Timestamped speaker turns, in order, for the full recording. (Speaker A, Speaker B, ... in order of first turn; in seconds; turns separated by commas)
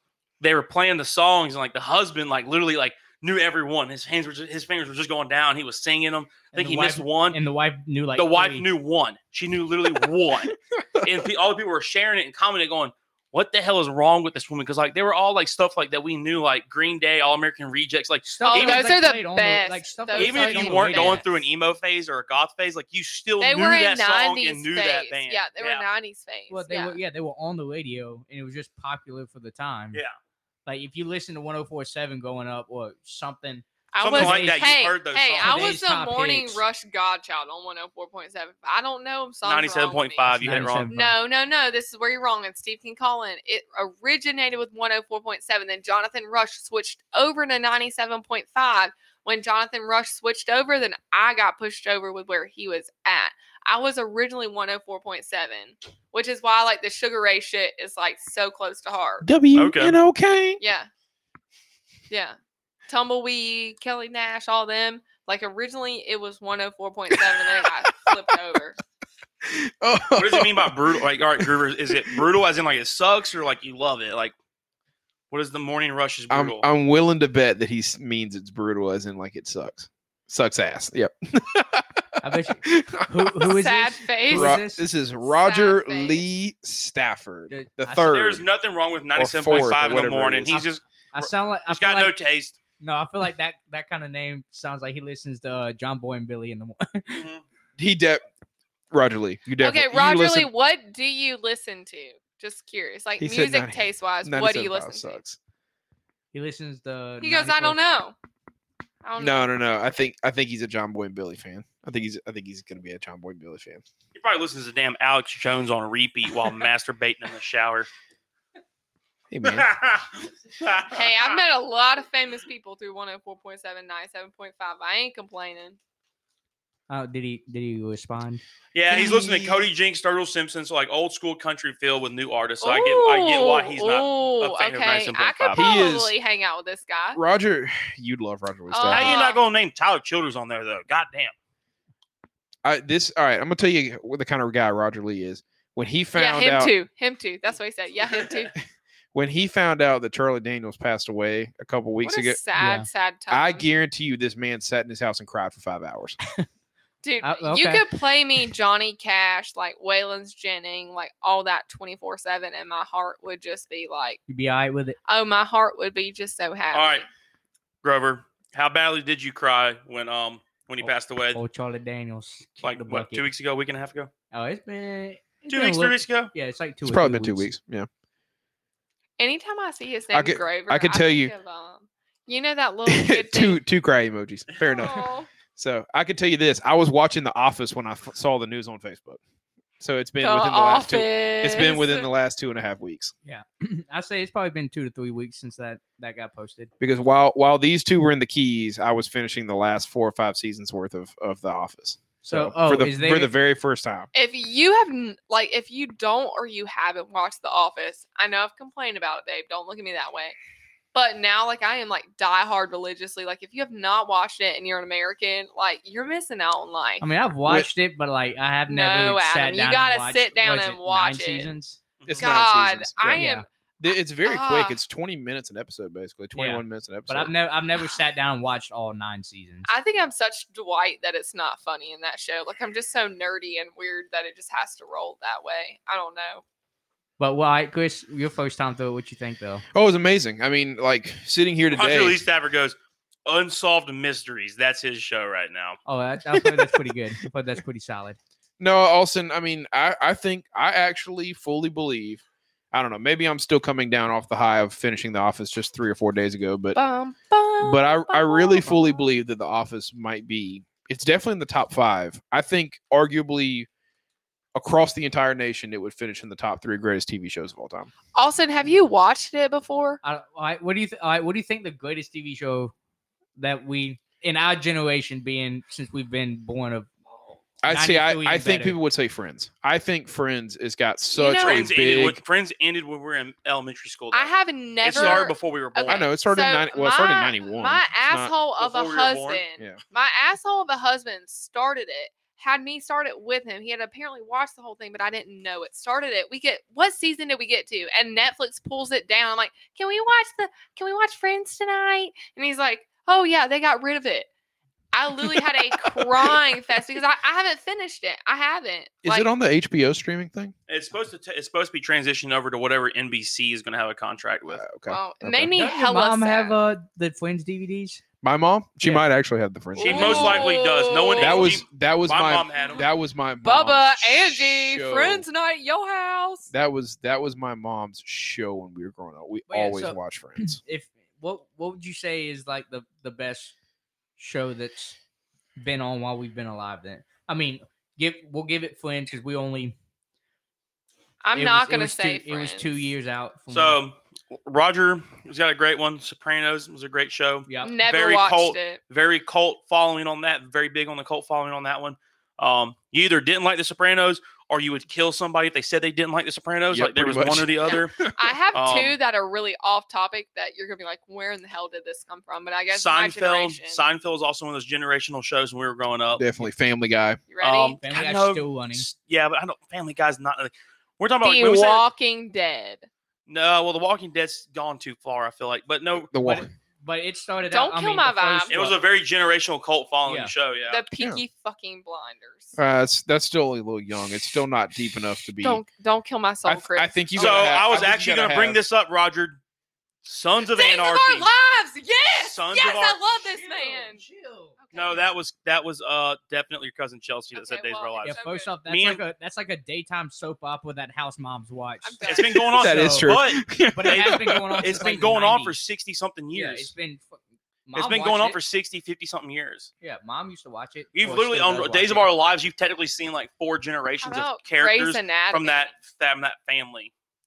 Speaker A: 0.4-7.4, Speaker B: 6.5-8.7, Speaker A: 8.2-18.9, Speaker B: 18.2-21.4, Speaker C: 18.5-21.2, Speaker A: 20.1-25.8, Speaker C: 23.4-27.0, Speaker B: 26.5-30.0, Speaker B: 30.6-34.7, Speaker C: 33.9-59.3, Speaker A: 34.0-35.8, Speaker B: 35.4-36.6, Speaker A: 39.4-40.9, Speaker B: 40.3-41.1, Speaker D: 59.2-60.6, Speaker A: 59.5-60.0, Speaker C: 60.6-60.9, Speaker C: 62.1-62.4, Speaker C: 62.9-68.8, Speaker D: 67.3-68.1, Speaker D: 69.4-72.2, Speaker A: 70.1-74.3, Speaker A: 75.3-76.7, Speaker D: 76.3-83.5, Speaker B: 82.2-84.8, Speaker C: 83.4-84.6, Speaker D: 84.3-88.5, Speaker C: 85.2-86.2, Speaker B: 87.5-87.8, Speaker A: 87.9-92.6, Speaker D: 89.2-90.5, Speaker B: 90.5-92.1, Speaker B: 92.8-97.2, Speaker A: 97.1-97.4, Speaker D: 97.8-98.2, Speaker D: 98.9-100.5, Speaker C: 99.6-105.2, Speaker D: 103.2-105.4, Speaker B: 106.3-107.8, Speaker C: 107.2-108.1, Speaker C: 109.0-109.5, Speaker D: 109.2-113.8, Speaker A: 114.1-117.9, Speaker D: 119.3-119.7, Speaker A: 119.4-121.4, Speaker C: 120.9-125.8, Speaker B: 126.9-128.4, Speaker A: 128.7-135.9, Speaker D: 128.9-129.6, Speaker C: 132.6-137.2, Speaker D: 135.5-136.1, Speaker D: 137.1-139.2, Speaker C: 138.7-139.4, Speaker A: 138.9-141.3, Speaker D: 142.6-146.7, Speaker C: 146.1-148.5, Speaker D: 149.1-152.4, Speaker C: 152.0-153.6, Speaker B: 152.6-152.9, Speaker D: 153.3-156.2, Speaker C: 157.0-164.2, Speaker B: 157.2-157.9, Speaker B: 164.3-165.0, Speaker C: 165.1-167.0, Speaker A: 166.7-167.1, Speaker A: 167.8-171.4, Speaker B: 170.8-173.3, Speaker A: 172.6-174.1, Speaker B: 174.3-177.5, Speaker A: 175.5-176.3, Speaker D: 176.8-177.9, Speaker C: 179.2-183.6, Speaker D: 180.1-181.3, Speaker D: 182.8-189.2, Speaker C: 184.6-185.3, Speaker D: 189.8-193.1, Speaker C: 190.2-192.1, Speaker B: 193.2-196.7, Speaker D: 196.8-204.1, Speaker B: 202.2-203.3, Speaker C: 204.1-210.3, Speaker C: 210.9-217.0, Speaker B: 217.0-221.8, Speaker C: 218.7-221.5, Speaker A: 222.0-222.3, Speaker D: 222.1-223.2, Speaker C: 222.2-223.4, Speaker B: 223.1-223.4, Speaker D: 223.8-227.3, Speaker C: 224.2-224.8, Speaker B: 226.3-229.7, Speaker C: 229.7-236.4, Speaker B: 237.2-239.6, Speaker D: 239.7-242.2, Speaker A: 241.7-245.8, Speaker B: 245.8-248.2, Speaker D: 246.3-246.9, Speaker D: 248.6-256.8, Speaker C: 256.7-259.0, Speaker D: 257.6-263.7, Speaker D: 264.5-267.9, Speaker C: 268.1-270.0, Speaker B: 270.0-272.7, Speaker B: 273.4-278.8, Speaker D: 277.6-282.2, Speaker C: 281.1-281.8, Speaker A: 281.3-286.1, Speaker C: 284.1-304.3, Speaker D: 284.9-285.2, Speaker D: 285.9-288.3, Speaker A: 288.6-289.4, Speaker C: 304.9-309.3, Speaker D: 306.0-306.3, Speaker D: 309.0-310.5, Speaker A: 310.7-314.6, Speaker D: 314.5-315.5, Speaker C: 314.9-316.6, Speaker B: 315.5-318.0, Speaker D: 318.2-320.6, Speaker C: 319.8-321.6, Speaker A: 319.8-322.9, Speaker D: 321.2-325.2, Speaker C: 323.4-326.5, Speaker D: 326.5-330.6, Speaker B: 329.5-333.5, Speaker B: 334.2-335.0, Speaker B: 335.6-339.8, Speaker C: 341.2-342.8, Speaker B: 341.3-343.8, Speaker A: 343.5-358.0, Speaker B: 347.5-347.7, Speaker C: 347.6-348.8, Speaker D: 356.7-358.4, Speaker C: 358.1-363.8, Speaker A: 358.5-358.9, Speaker A: 362.7-366.2, Speaker D: 366.1-367.2, Speaker C: 367.3-367.8, Speaker A: 367.4-371.8, Speaker B: 367.8-368.8, Speaker C: 371.2-372.9, Speaker A: 373.3-376.1, Speaker D: 375.9-376.5, Speaker B: 376.2-378.8, Speaker C: 377.5-378.6, Speaker A: 378.5-380.8, Speaker B: 380.1-380.3, Speaker C: 380.7-382.5, Speaker D: 382.6-385.6, Speaker C: 385.4-387.6, Speaker D: 386.4-388.6, Speaker A: 387.1-389.4, Speaker A: 390.0-391.3, Speaker C: 390.5-394.0, Speaker A: 392.1-393.0, Speaker B: 393.2-394.6, Speaker C: 394.6-395.1, Speaker A: 394.7-399.0, Speaker C: 397.3-398.5, Speaker B: 398.0-403.1, Speaker C: 401.8-402.5, Speaker A: 402.0-406.7, Speaker D: 402.5-404.8, Speaker B: 403.7-405.6, Speaker B: 406.3-408.4, Speaker A: 407.7-409.7, Speaker B: 409.8-412.1, Speaker A: 410.9-416.9, Speaker C: 414.0-415.7